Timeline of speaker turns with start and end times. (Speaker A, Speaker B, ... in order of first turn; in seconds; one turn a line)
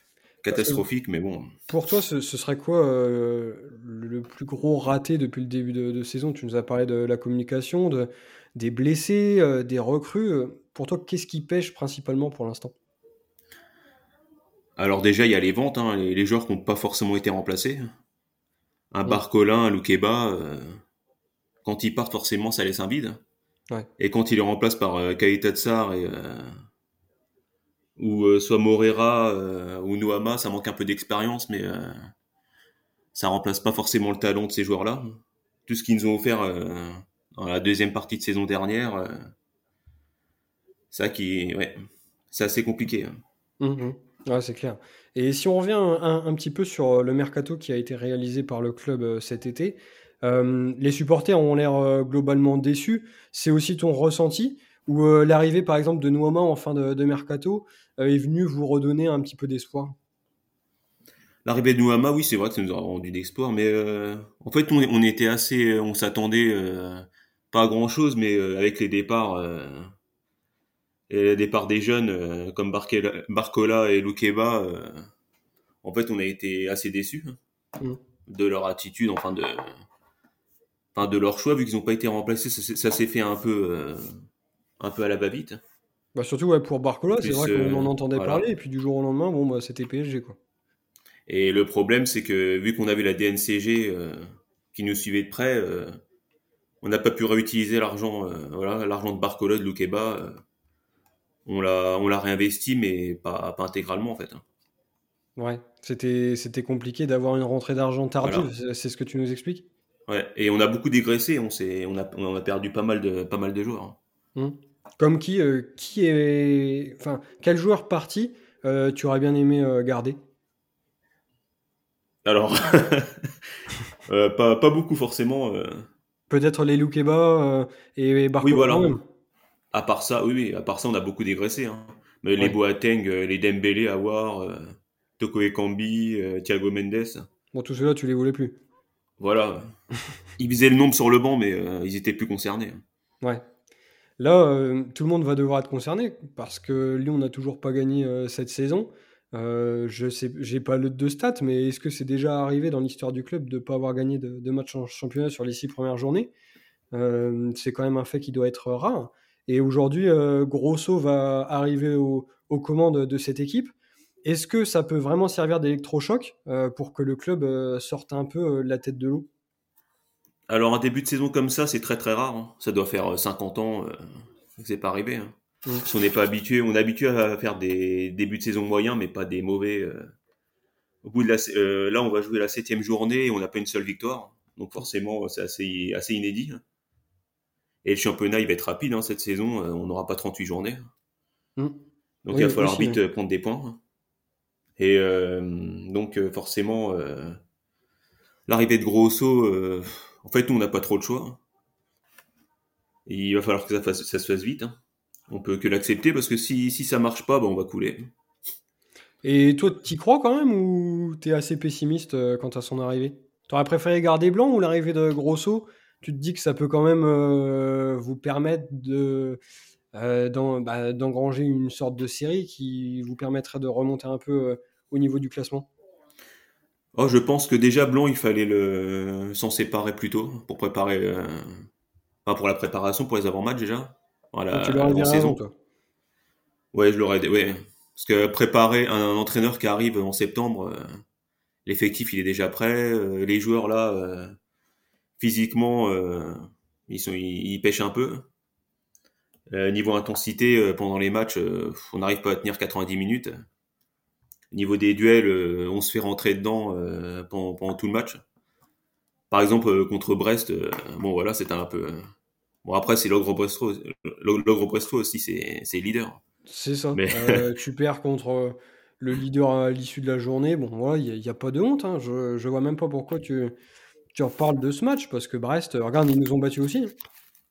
Speaker A: 0.4-1.5
Speaker B: 0.5-0.8
Speaker B: 1.7-12.7
Speaker A: 14.8-17.9
Speaker A: 18.9-20.8
Speaker A: 21.6-23.2
Speaker A: 24.0-26.5
Speaker A: 28.0-32.1
Speaker A: 33.1-39.3
Speaker A: 40.9-41.8
Speaker A: 42.3-43.1
Speaker B: 43.6-59.9
Speaker A: 61.4-69.9
Speaker A: 71.1-75.1
Speaker A: 75.8-77.3
Speaker A: 78.3-79.7
Speaker A: 80.9-84.1
Speaker A: 84.8-85.6
Speaker B: 86.1-90.4
Speaker A: 87.2-88.4
Speaker A: 91.3-96.0
Speaker A: 96.8-100.4
Speaker A: 101.5-104.4
Speaker B: 105.4-109.7
Speaker A: 108.2-108.5
Speaker A: 110.1-114.0
Speaker B: 114.3-120.2
Speaker A: 122.2-123.3
Speaker A: 124.1-125.9
Speaker B: 126.3-129.0
Speaker A: 128.4-128.9
Speaker A: 129.7-137.3
Speaker B: 137.5-138.6
Speaker A: 139.2-139.7
Speaker A: 140.4-142.8
Speaker B: 144.2-156.3
Speaker B: 156.9-163.7
Speaker B: 164.2-169.3
Speaker A: 170.5-180.1
Speaker A: 181.0-186.6
Speaker A: 187.8-190.9
Speaker A: 192.2-193.8
Speaker B: 192.3-193.0
Speaker A: 194.8-197.4
Speaker A: 198.5-201.4
Speaker A: 203.1-204.8
Speaker A: 205.3-208.1
Speaker B: 209.2-219.4
Speaker B: 219.9-225.7
Speaker A: 226.9-231.7
Speaker A: 232.2-235.4
Speaker B: 234.5-235.5
Speaker A: 236.7-241.0
Speaker A: 241.7-244.3
Speaker A: 245.2-248.3
Speaker A: 249.5-253.3
Speaker A: 254.5-258.2
Speaker A: 259.3-262.0
Speaker A: 262.6-266.2
Speaker B: 266.5-273.5
Speaker A: 266.9-267.4
Speaker B: 274.1-276.9